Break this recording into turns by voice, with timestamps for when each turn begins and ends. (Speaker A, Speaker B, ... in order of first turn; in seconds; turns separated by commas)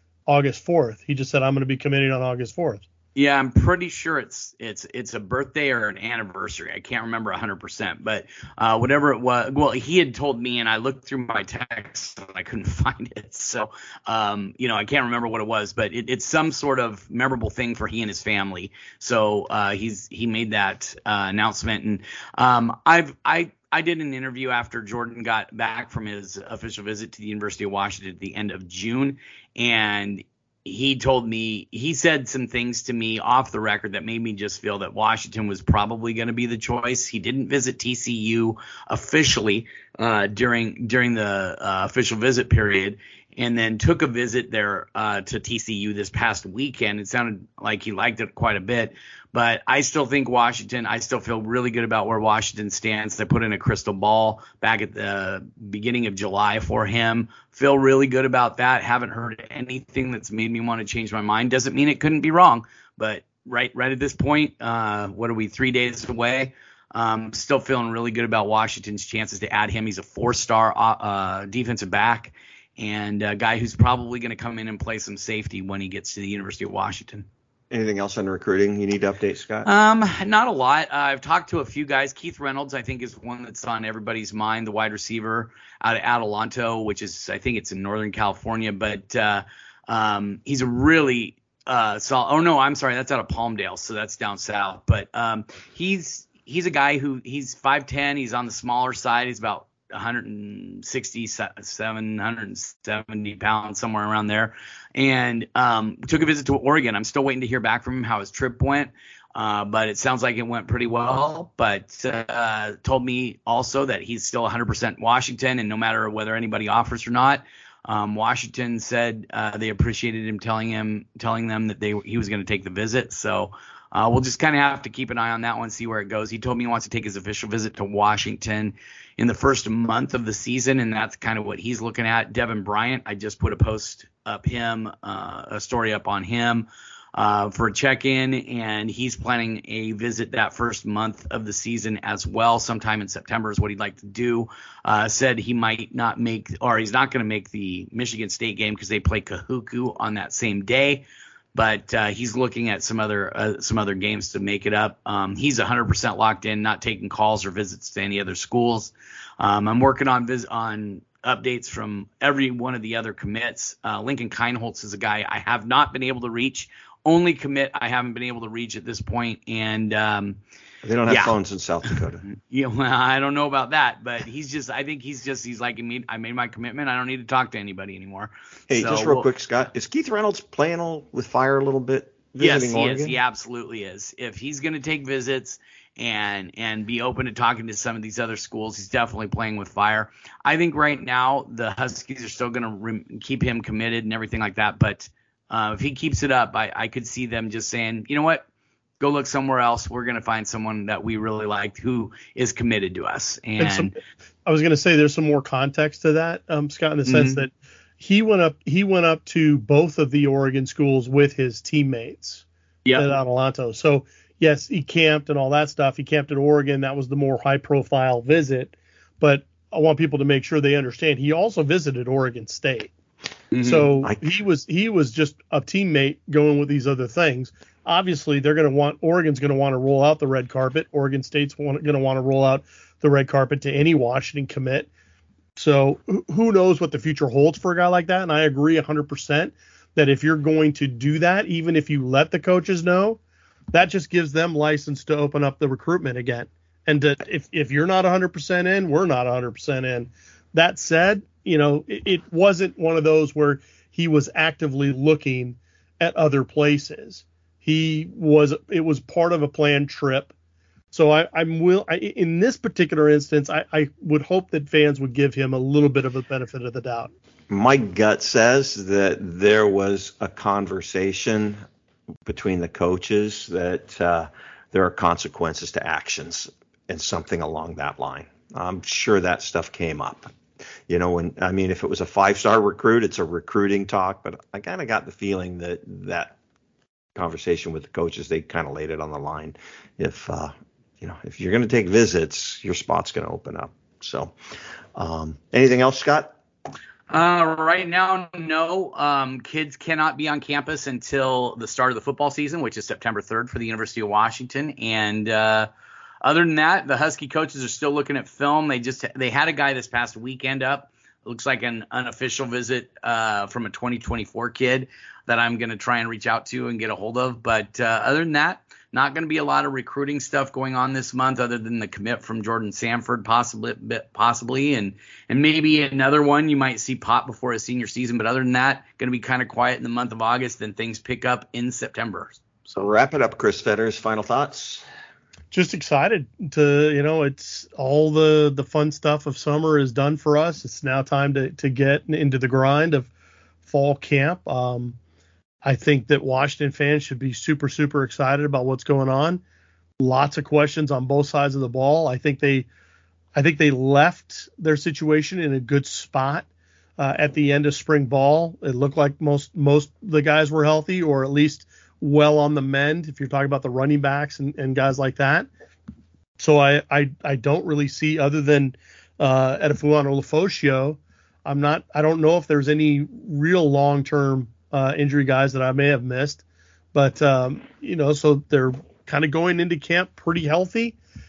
Speaker A: 0.3-2.8, Speaker B: 3.1-77.3, Speaker C: 77.7-79.7, Speaker B: 79.7-170.4, Speaker C: 170.8-172.2, Speaker B: 171.1-171.3, Speaker B: 171.9-179.3, Speaker C: 178.7-183.2, Speaker B: 182.4-198.4, Speaker B: 199.0-203.9, Speaker A: 203.6-212.4, Speaker B: 207.1-207.4, Speaker B: 212.8-213.1, Speaker A: 213.0-222.9, Speaker B: 223.5-223.9, Speaker A: 223.6-234.9, Speaker A: 235.6-243.2, Speaker A: 243.7-260.3, Speaker A: 260.9-267.1, Speaker C: 267.5-271.6, Speaker C: 272.2-280.3, Speaker C: 280.9-286.4, Speaker C: 287.1-294.4, Speaker C: 294.9-296.4, Speaker B: 297.1-305.7, Speaker B: 306.2-332.4, Speaker C: 332.7-334.9, Speaker A: 335.5-343.1, Speaker A: 343.6-345.0, Speaker A: 345.6-349.4, Speaker A: 350.0-352.7, Speaker A: 353.4-356.5, Speaker A: 357.0-365.5, Speaker A: 366.4-376.4, Speaker A: 376.9-381.0